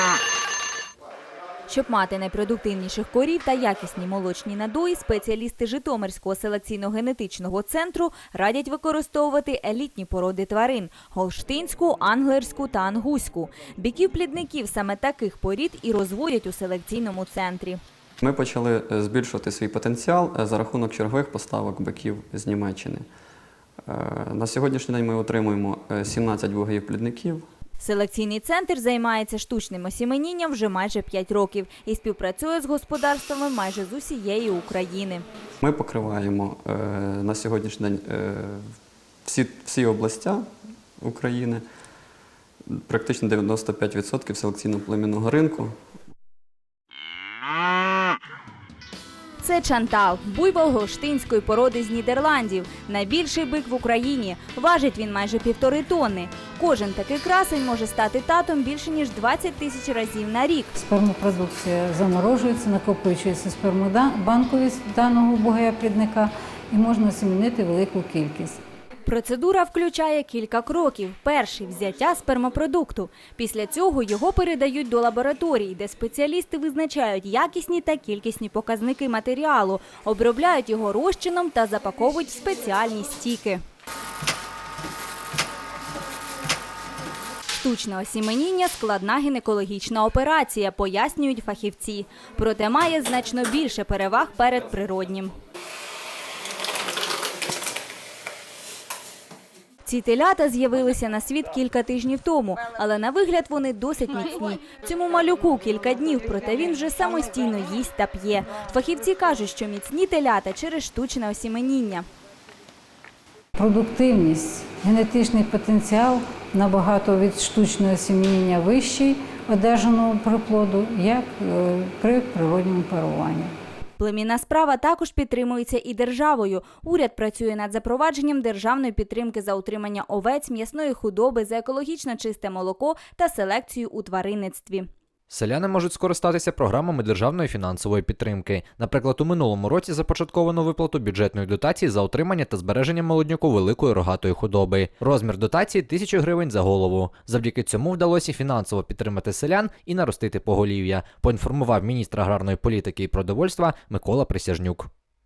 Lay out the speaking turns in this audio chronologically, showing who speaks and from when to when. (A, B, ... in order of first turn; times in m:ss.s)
0:01.7-0:17.8 A
0:18.2-0:23.0 B
0:23.8-0:27.5 B
0:27.8-0:35.2 A
0:35.6-0:41.6 B
0:42.6-0:45.8 B
0:49.4-1:00.7 A
1:00.7-1:08.6 C
1:09.0-1:23.6 A
1:27.5-1:35.3 A
1:39.8-1:52.0 A
1:53.5-2:03.5 C
2:04.0-2:14.9 A
2:15.3-2:34.9 D